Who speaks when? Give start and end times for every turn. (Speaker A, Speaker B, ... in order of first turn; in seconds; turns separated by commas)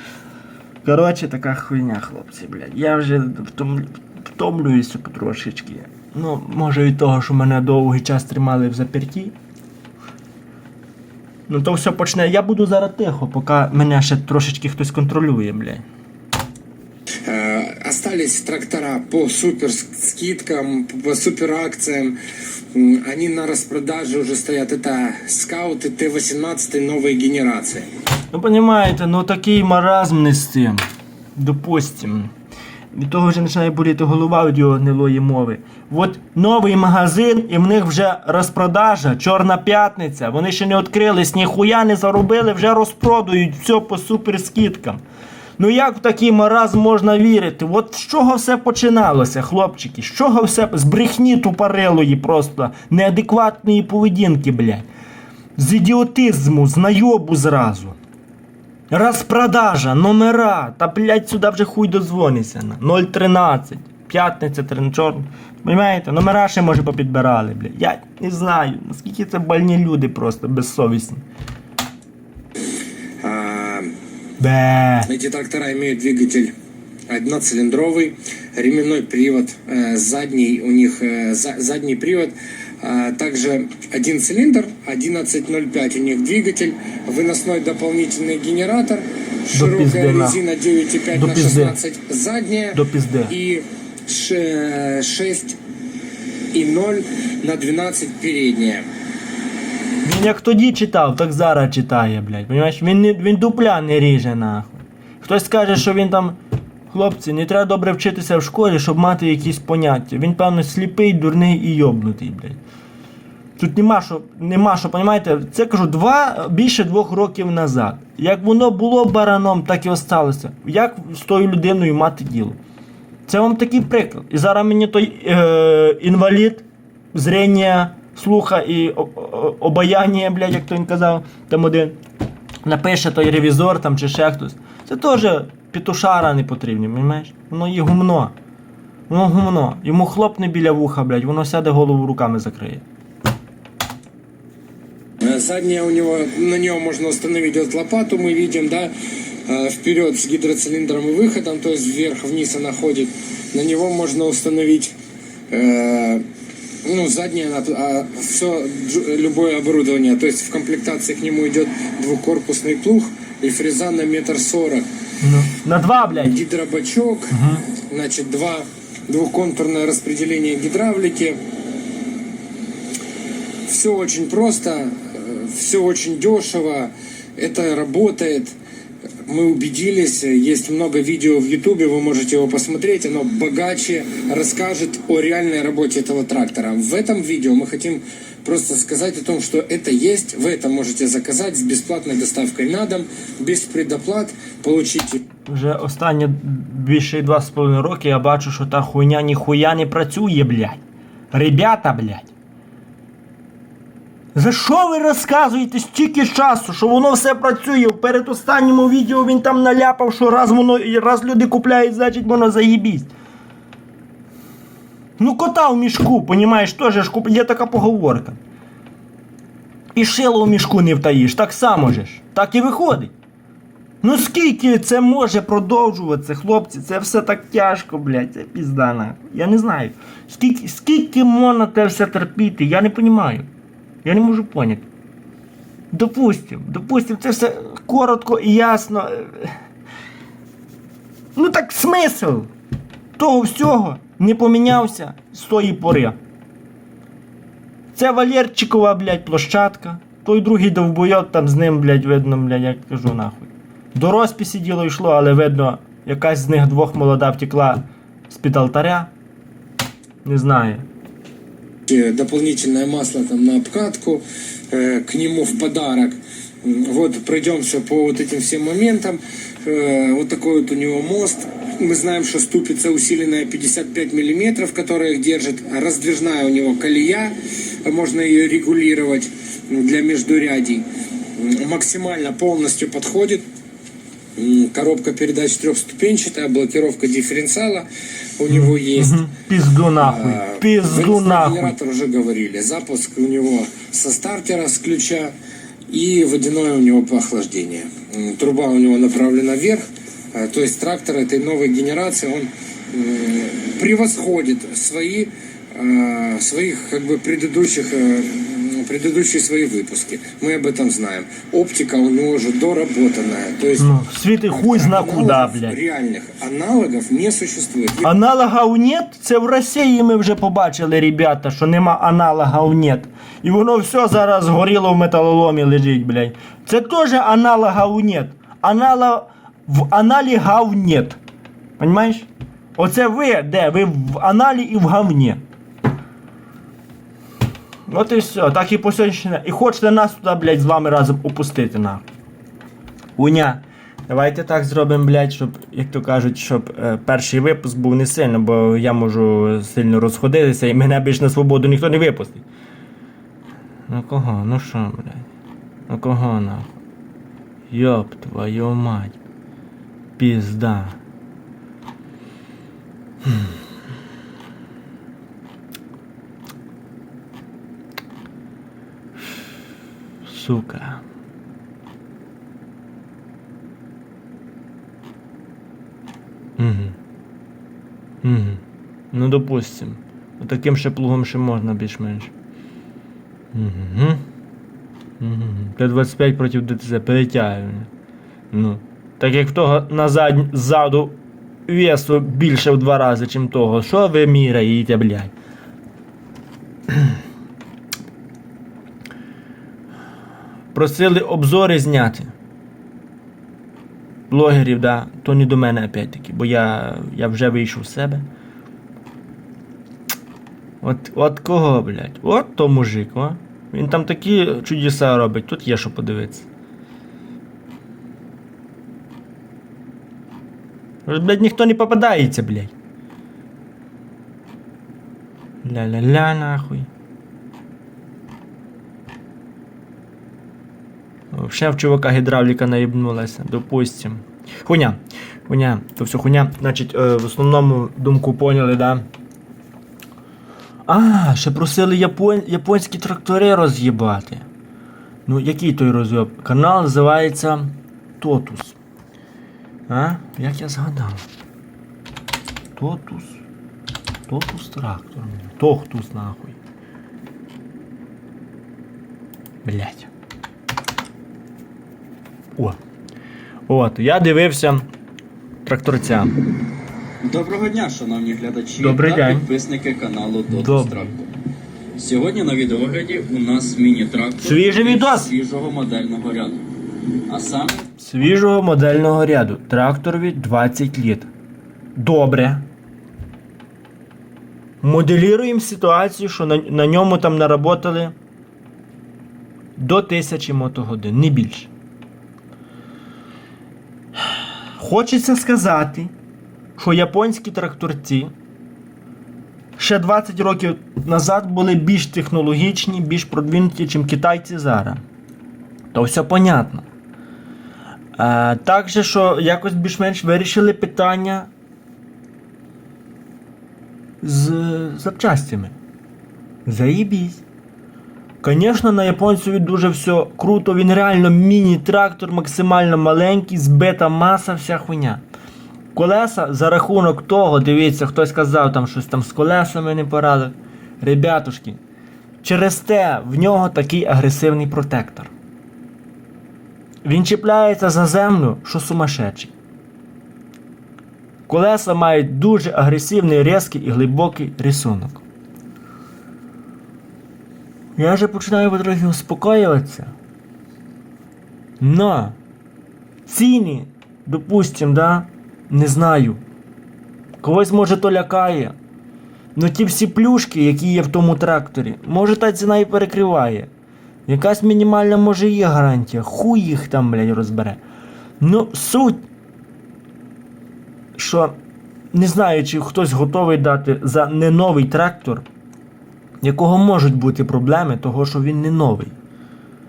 Speaker A: 0.8-9.3, Speaker A: 11.5-15.8, Speaker B: 17.2-22.2, Speaker B: 22.7-27.9, Speaker A: 28.3-30.8, Speaker A: 31.4-32.3, Speaker A: 32.9-45.0, Speaker A: 45.6-54.9, Speaker A: 55.5-58.0, Speaker A: 58.9-71.2, Speaker B: 73.2-73.9, Speaker A: 74.4-75.1, Speaker B: 75.1-76.5, Speaker B: 77.1-95.6, Speaker A: 89.5-90.4, Speaker A: 91.1-91.8, Speaker A: 92.7-93.3, Speaker B: 96.5-98.8, Speaker A: 100.0-106.4, Speaker A: 106.9-112.6, Speaker A: 113.6-122.6, Speaker A: 123.3-132.0, Speaker A: 132.7-138.3, Speaker A: 139.1-142.8, Speaker B: 145.2-148.9, Speaker B: 149.4-154.9, Speaker B: 155.5-156.2, Speaker B: 156.8-164.8, Speaker A: 165.2-166.3, Speaker B: 166.1-171.4, Speaker A: 167.3-167.6, Speaker B: 173.7-178.6, Speaker B: 179.2-195.2, Speaker A: 195.4-202.3, Speaker A: 204.3-213.1, Speaker A: 215.2-218.4, Speaker A: 219.9-223.1, Speaker A: 224.0-233.5, Speaker A: 234.0-234.8, Speaker A: 235.9-239.5, Speaker A: 241.3-242.5, Speaker A: 243.2-246.2, Speaker A: 247.9-259.1, Speaker A: 260.2-260.8, Speaker B: 261.9-280.8, Speaker B: 281.4-283.4, Speaker B: 284.4-287.9, Speaker B: 288.4-289.2, Speaker A: 288.5-291.7, Speaker B: 290.0-295.3, Speaker B: 295.9-313.9, Speaker A: 313.8-315.8, Speaker B: 314.5-318.1, Speaker A: 318.0-331.2, Speaker A: 331.8-335.4, Speaker A: 337.9-342.0, Speaker A: 343.1-352.4, Speaker A: 353.9-355.3, Speaker A: 355.9-356.7, Speaker A: 357.7-359.2, Speaker A: 360.2-361.0, Speaker A: 363.2-363.6, Speaker A: 370.3-371.0, Speaker A: 376.6-377.0, Speaker A: 378.2-378.6, Speaker A: 379.1-382.3, Speaker A: 383.5-384.2, Speaker A: 385.2-387.9, Speaker A: 388.5-395.3, Speaker A: 396.9-397.2, Speaker A: 400.7-402.3, Speaker A: 404.3-408.2, Speaker A: 410.8-416.5, Speaker A: 421.1-422.7, Speaker A: 425.6-426.9, Speaker A: 431.3-439.0, Speaker A: 440.9-444.5, Speaker A: 445.2-448.8, Speaker A: 449.9-451.2, Speaker A: 452.7-453.4, Speaker A: 454.3-456.6, Speaker A: 459.6-460.1, Speaker A: 463.7-464.9, Speaker A: 465.6-466.4, Speaker C: 467.2-471.2, Speaker A: 468.8-469.5, Speaker A: 470.5-471.0, Speaker C: 472.0-476.7, Speaker A: 474.4-475.3, Speaker C: 477.3-477.9, Speaker A: 478.0-481.3, Speaker A: 481.9-482.6, Speaker A: 484.8-488.1, Speaker A: 489.8-491.7, Speaker A: 494.8-496.1, Speaker A: 496.8-498.3, Speaker A: 499.8-505.0, Speaker A: 505.9-506.9, Speaker A: 508.1-511.5, Speaker A: 514.2-515.7, Speaker A: 516.6-517.4, Speaker A: 518.4-525.2, Speaker A: 525.9-531.8, Speaker A: 532.4-535.3, Speaker A: 537.0-539.5, Speaker A: 541.5-545.2, Speaker A: 548.0-550.1, Speaker A: 551.8-552.4, Speaker A: 553.2-556.4, Speaker A: 557.4-558.7, Speaker A: 559.5-563.7, Speaker A: 564.3-567.8, Speaker A: 568.4-569.2, Speaker A: 571.1-571.5, Speaker A: 572.1-575.4, Speaker A: 576.4-579.1